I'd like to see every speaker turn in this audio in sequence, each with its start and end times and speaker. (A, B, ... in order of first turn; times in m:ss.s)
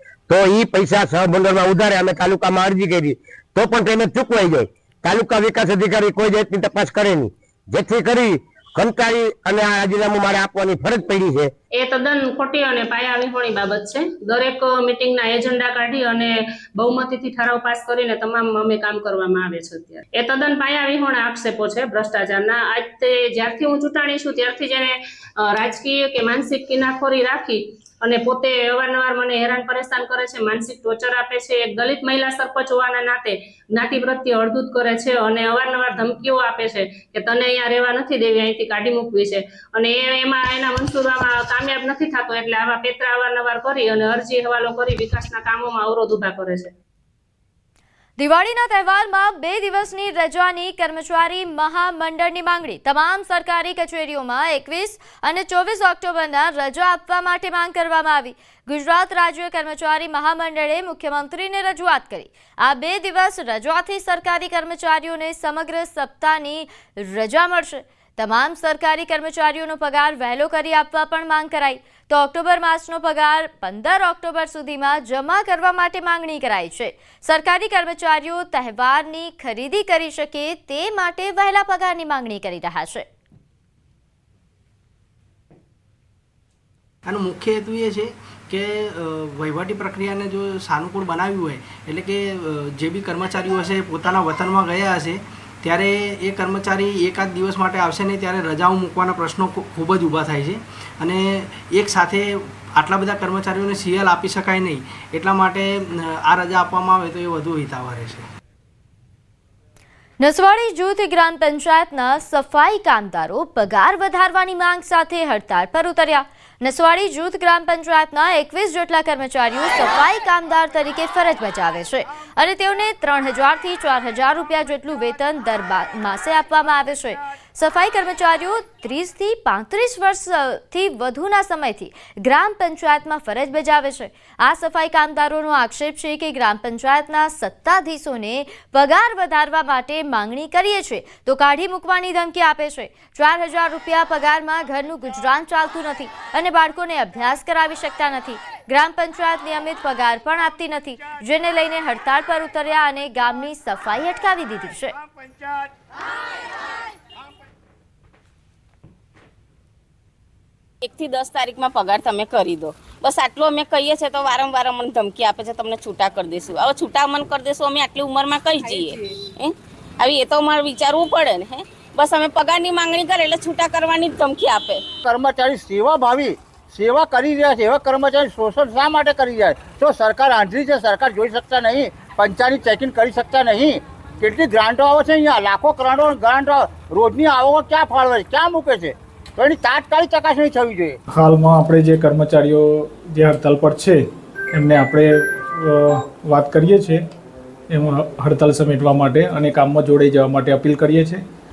0:00.3-0:11.5 A
0:11.8-0:46.7 B
0:48.2-1:23.0 C
1:27.1-1:32.2 D
1:32.8-1:41.2 D
1:41.8-1:42.2 D
1:42.8-1:45.7 D
1:46.3-1:48.2 D
1:50.2-2:35.0 C
2:40.8-2:54.8 E
2:55.0-3:11.0 F
3:11.1-3:14.0 G
3:14.5-3:17.0 G
3:17.7-3:21.2 G